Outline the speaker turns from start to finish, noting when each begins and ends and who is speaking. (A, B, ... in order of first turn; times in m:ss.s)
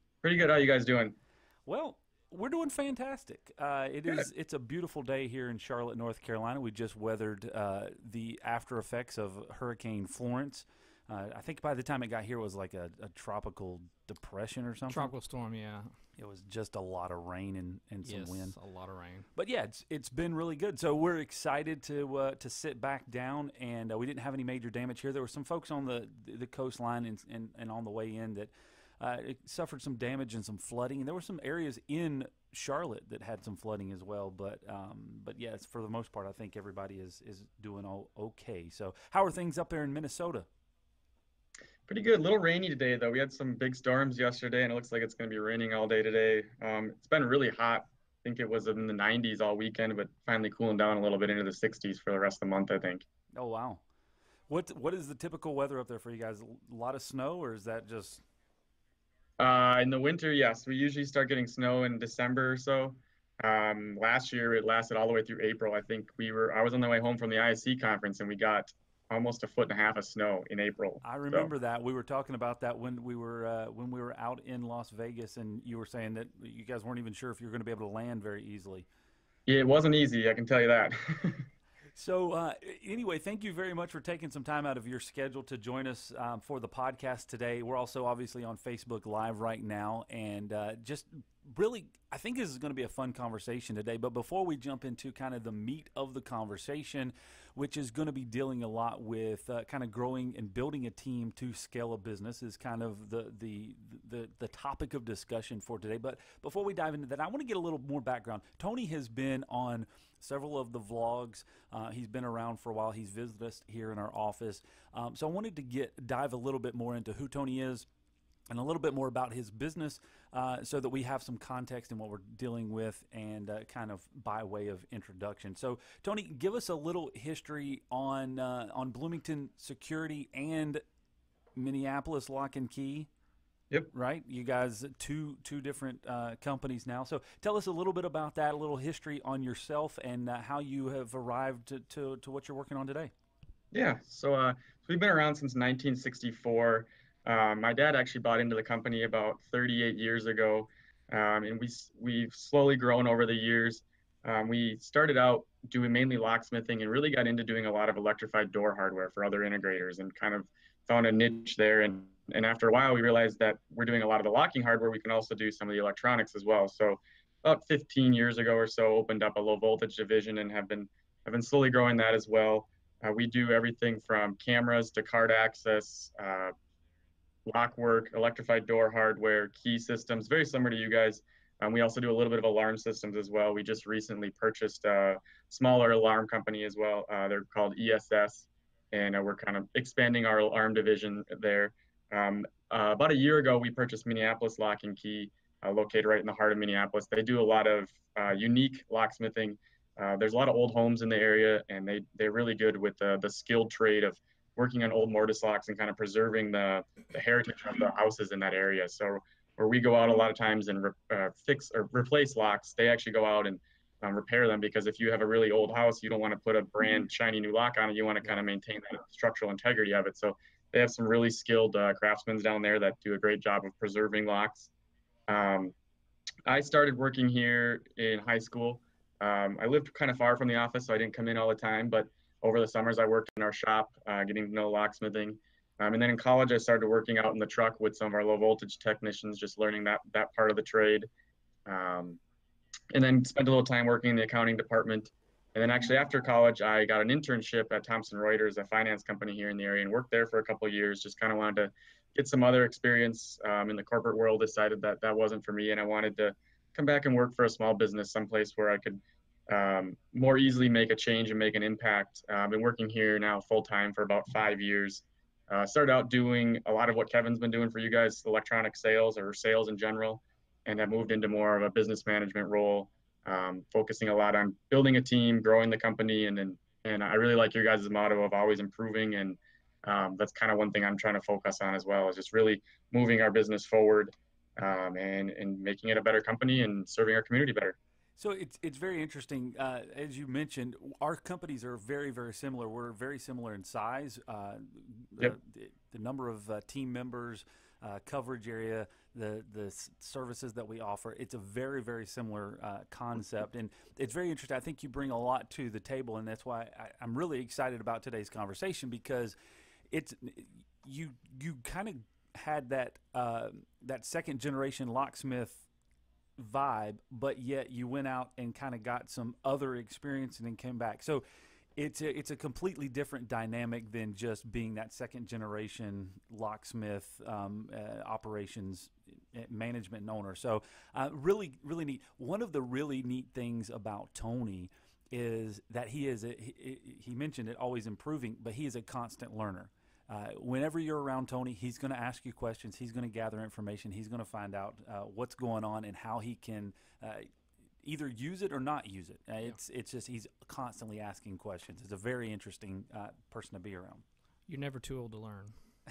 0:00.2-0:01.2 A
0:01.7-0:15.1 B
0:14.9-0:15.9 C
0:16.2-0:18.5 B
0:18.0-0:19.3 C
0:19.4-0:40.5 B
0:41.9-0:53.0 A
0:53.3-0:53.8 B
0:54.5-0:58.2 B
0:59.4-1:11.5 A
1:11.0-1:18.9 B
1:19.5-1:21.5 A
1:22.0-1:57.9 B
1:58.5-2:10.8 B
2:11.6-2:13.1 B
2:13.9-2:23.1 B
2:23.7-2:56.5 A
2:57.5-3:44.7 A
3:45.3-3:45.7 A
3:46.5-4:01.1 A
4:01.7-4:02.2 A
4:02.9-4:47.8 A
4:48.2-5:09.4 B
5:09.9-5:15.7 B
5:16.4-5:21.2 B
5:21.8-5:47.3 B
5:47.8-5:54.0 B
5:54.5-5:55.5 C